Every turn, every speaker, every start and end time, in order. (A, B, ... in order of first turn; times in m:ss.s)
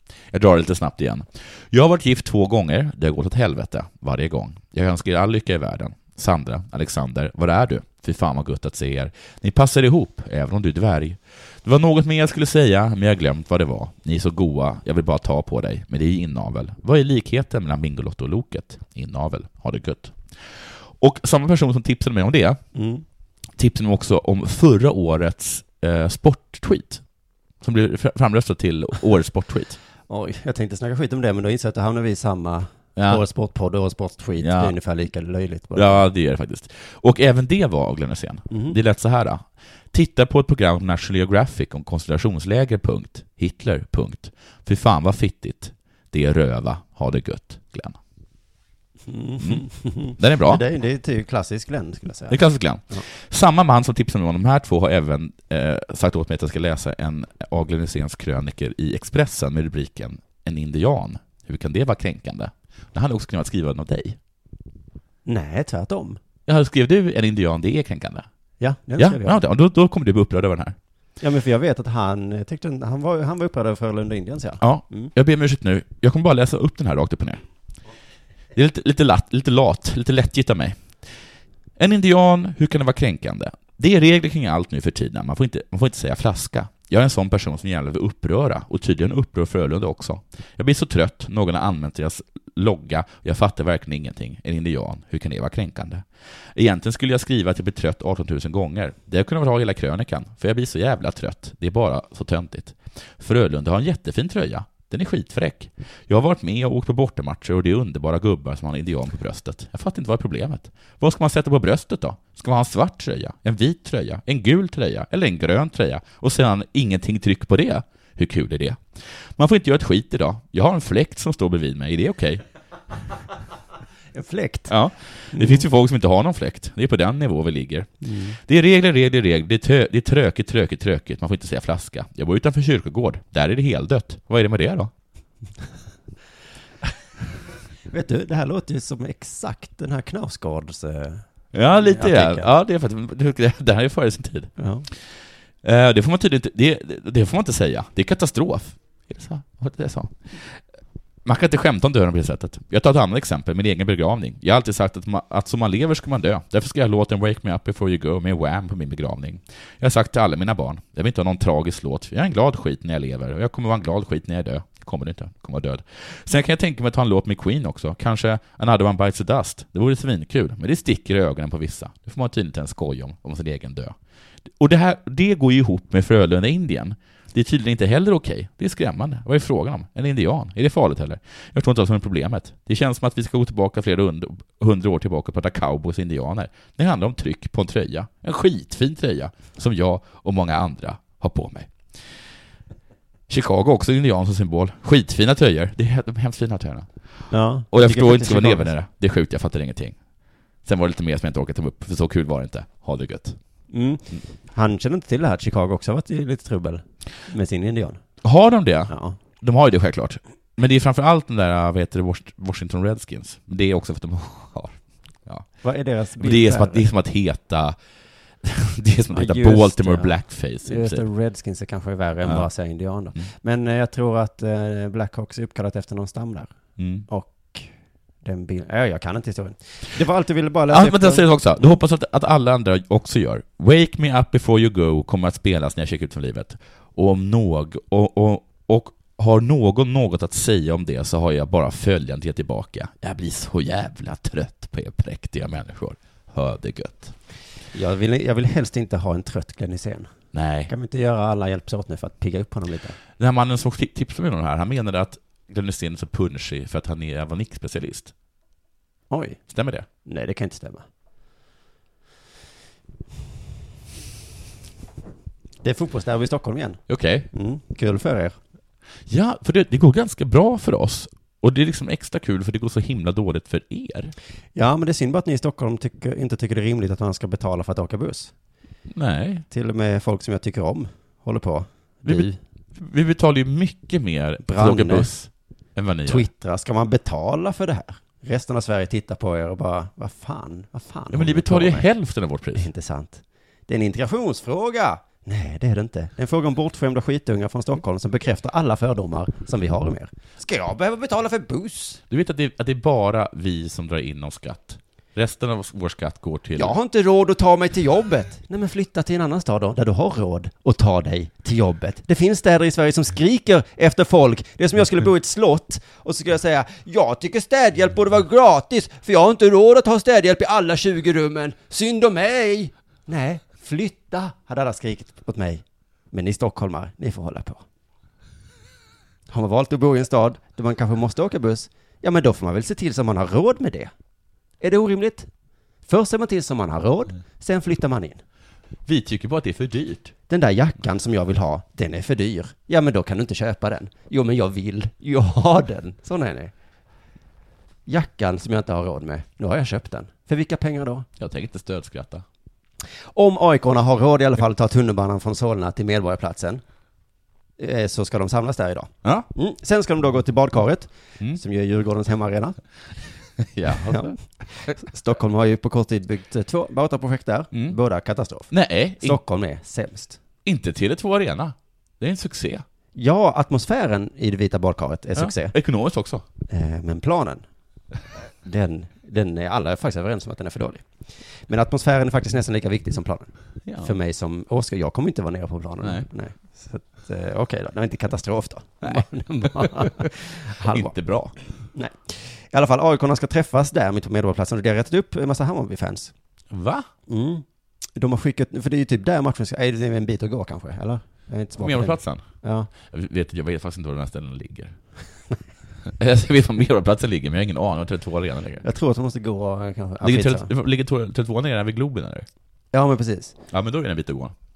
0:00.3-0:22.6 A
0:22.7-0:23.0 B
0:23.6-0:27.0 A
0:27.6-0:29.8 A
0:30.1-0:36.0 B
0:33.0-0:33.2 A
0:34.4-0:34.7 A
0:35.7-0:48.0 A
0:38.5-0:38.8 B
0:49.1-0:52.4 B
0:50.2-0:50.6 A
0:52.3-1:04.2 A
1:05.2-1:06.2 B
1:06.4-1:08.3 A
1:08.6-1:09.4 B
1:09.0-1:10.8 A
1:11.2-1:15.1 B
1:14.6-1:17.4 A
1:18.5-1:21.2 A
1:21.8-2:02.4 A
2:04.1-2:04.7 B
2:04.7-2:14.9 A
2:05.3-2:05.6 B
2:08.0-2:08.4 B
2:17.9-2:22.5 B
2:21.5-2:24.5 A
2:24.6-2:24.9 B
2:25.6-2:30.6 A
2:31.2-2:54.0 A
2:54.6-3:11.9 A
3:13.3-3:16.9 A
3:17.3-3:18.7 B
3:17.7-3:20.0 A
3:20.6-3:23.4 A
3:23.7-3:28.0 B
3:28.2-3:35.5 A
3:28.9-3:29.2 B
3:35.6-3:36.9 B
3:36.2-3:37.8 A
3:38.4-3:41.0 A
3:39.1-3:46.5 B
3:46.8-3:47.0 A
3:47.1-3:51.2 B
3:50.7-4:07.1 A
4:07.7-4:10.1 B
4:10.3-4:10.7 A
4:10.7-4:13.0 B
4:13.2-4:18.1 A
4:19.1-4:19.4 B
4:19.5-4:19.9 A
4:20.0-4:20.8 B
4:25.6-4:28.4 B
4:26.9-4:27.3 A
4:29.1-4:34.1 A
4:34.5-4:38.3 B
4:38.9-4:39.5 A
4:39.5-4:42.4 B
4:42.0-4:46.2 A
4:44.4-4:45.1 B
4:46.0-4:51.9 B
4:51.1-4:52.7 A
4:52.5-5:02.0 B
5:02.1-5:06.8 A
5:06.6-5:27.6 B
5:29.3-5:33.9 B
5:34.6-5:35.3 B
5:35.8-5:38.2 B
5:38.8-5:40.1 A
5:40.3-5:46.5 B
5:47.8-5:51.1 B
5:51.2-5:52.2 A
5:53.1-5:56.6 B
5:57.6-6:02.6 B
6:03.4-6:04.2 A
6:03.8-6:10.2 B
6:08.5-6:09.2 A
6:10.4-6:12.6 A
6:12.9-6:15.6 B
6:15.1-6:16.2 A
6:16.5-6:17.4 B
6:18.4-6:30.9 B
6:23.6-6:23.9 A
6:25.8-6:26.1 A
6:28.8-6:30.0 A
6:30.6-6:31.4 A
6:31.7-6:36.1 B
6:36.5-6:36.9 A
6:37.1-6:37.4 B
6:38.0-6:42.7 B
6:41.6-6:42.2 A
6:42.8-6:44.8 A
6:45.8-6:48.6 A
6:48.6-6:50.5 B
6:50.0-6:52.3 A
6:52.7-6:53.4 B
6:53.5-6:54.3 A